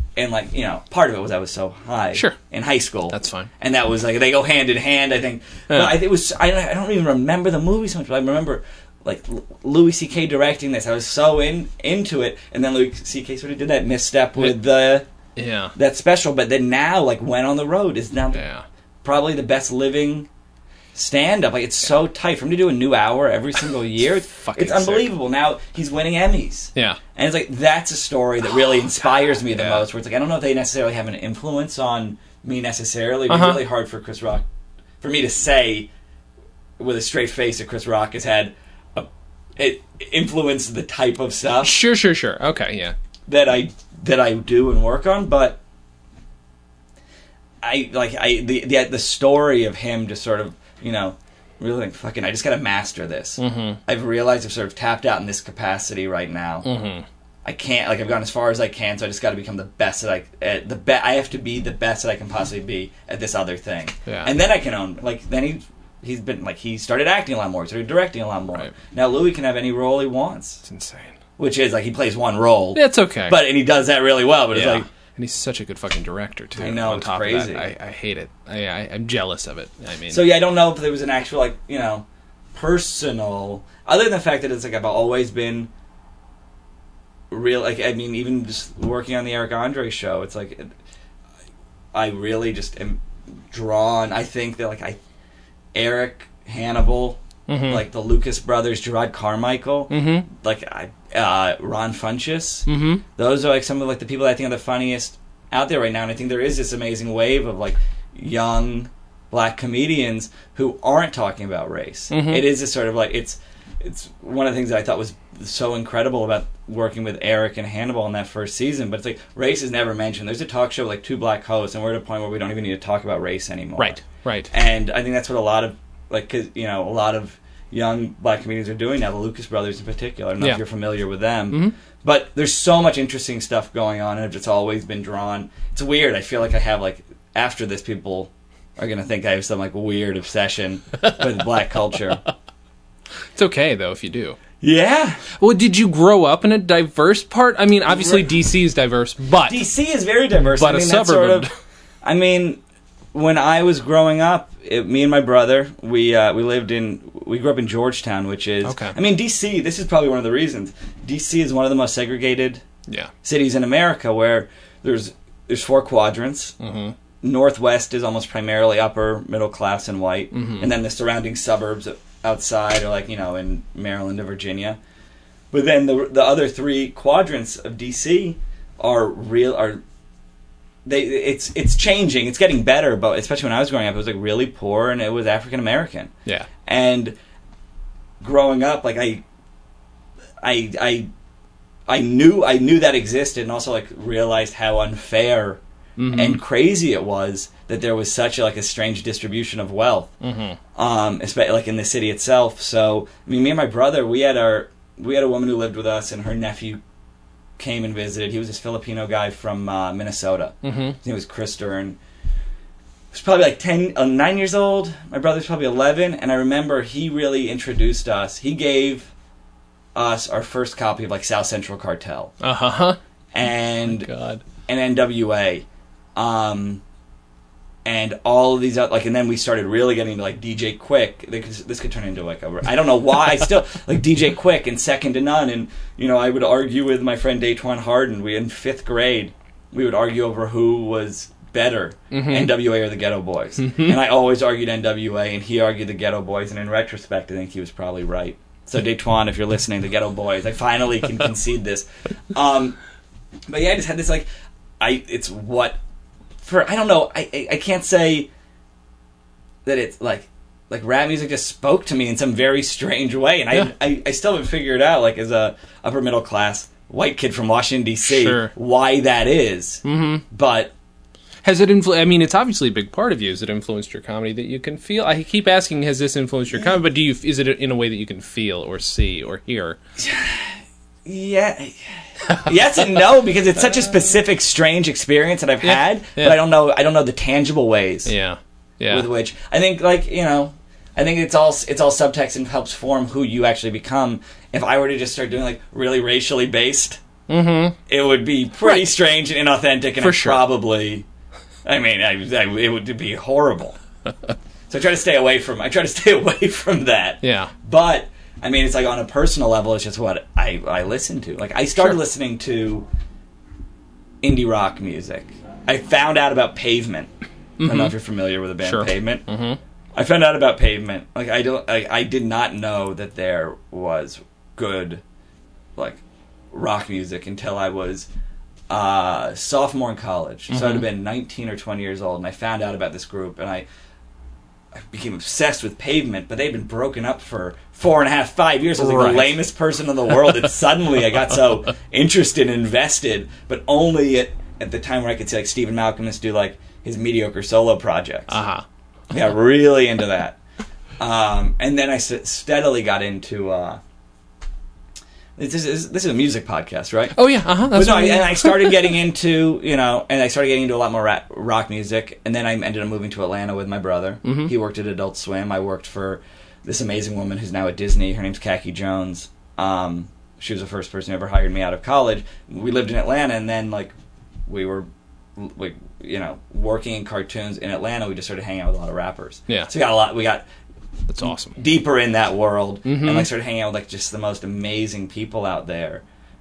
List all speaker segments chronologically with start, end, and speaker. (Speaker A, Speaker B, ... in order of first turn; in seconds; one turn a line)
Speaker A: 0.2-15.1
Speaker B: 2.1-2.4
Speaker B: 3.1-3.5
Speaker B: 15.4-15.8
Speaker A: 15.8-18.4
Speaker B: 18.3-18.6
Speaker A: 19.0-20.3
Speaker A: 20.9-34.5
Speaker B: 24.3-25.1
Speaker B: 29.5-29.9
Speaker B: 33.3-33.6
Speaker A: 35.0-35.9
Speaker A: 36.8-41.8
Speaker B: 41.6-43.0
Speaker A: 43.3-45.6
Speaker A: 47.6-56.7
Speaker B: 53.4-53.8
Speaker B: 56.6-57.0
Speaker A: 57.5-70.6
Speaker B: 64.1-64.3
Speaker B: 70.7-71.2
Speaker A: 71.4-74.9
Speaker B: 72.8-73.4
Speaker B: 74.5-80.2
Speaker A: 76.6-77.7
Speaker A: 80.1-85.7
Speaker A: 87.3-90.7
Speaker A: 91.9-95.0
Speaker A: 95.7-142.2
Speaker B: 97.5-97.8
Speaker B: 99.9-100.3
Speaker B: 102.7-103.0
Speaker B: 112.1-112.5
Speaker B: 123.8-124.5
Speaker B: 143.3-144.4
Speaker A: 144.6-145.2
Speaker B: 145.4-149.6
Speaker A: 147.9-148.2
Speaker A: 149.4-151.5
Speaker B: 150.6-151.5
Speaker A: 152.0-152.6
Speaker A: 153.1-162.6
Speaker B: 158.7-159.0
Speaker B: 162.9-163.1
Speaker A: 163.2-166.6
Speaker B: 166.6-166.9
Speaker A: 167.2-174.8
Speaker B: 170.3-170.7
Speaker A: 175.5-179.8
Speaker A: 180.8-186.1
Speaker A: 186.6-187.2
Speaker A: 188.2-189.2
Speaker A: 190.4-191.1
Speaker A: 191.9-195.6
Speaker B: 196.0-196.4
Speaker A: 196.1-200.1
Speaker B: 200.2-200.6
Speaker A: 200.8-206.8
Speaker A: 207.6-212.0
Speaker B: 210.6-211.0
Speaker A: 213.1-219.1
Speaker A: 219.9-222.3
Speaker B: 222.4-223.0
Speaker A: 223.3-224.1
Speaker B: 223.9-224.4
Speaker A: 224.7-226.8
Speaker A: 227.8-252.8
Speaker B: 242.1-242.5
Speaker A: 253.5-254.3
Speaker A: 254.8-255.8
Speaker A: 256.4-258.3
Speaker A: 259.6-270.7
Speaker B: 268.0-268.5
Speaker B: 269.9-270.2
Speaker B: 271.4-279.8
Speaker A: 280.0-288.1
Speaker B: 285.6-286.4
Speaker B: 288.1-289.1
Speaker A: 288.9-297.0
Speaker B: 297.3-297.8
Speaker A: 297.9-301.1
Speaker B: 300.0-300.4
Speaker A: 301.6-303.8
Speaker A: 304.7-312.9
Speaker B: 307.2-307.5
Speaker A: 314.2-317.1
Speaker B: 317.6-317.9
Speaker A: 317.6-319.3
Speaker B: 318.6-319.6
Speaker A: 319.9-325.0
Speaker A: 325.8-328.1
Speaker A: 328.7-333.7
Speaker B: 330.5-330.9
Speaker A: 334.8-348.4
Speaker B: 338.8-339.4
Speaker B: 348.3-348.6
Speaker A: 349.1-350.4
Speaker A: 351.0-353.8
Speaker A: 355.4-357.2
Speaker B: 357.1-358.9
Speaker A: 357.7-373.9
Speaker B: 364.2-364.5
Speaker A: 374.5-380.5
Speaker B: 381.1-381.6
Speaker A: 381.5-386.0
Speaker B: 382.9-383.3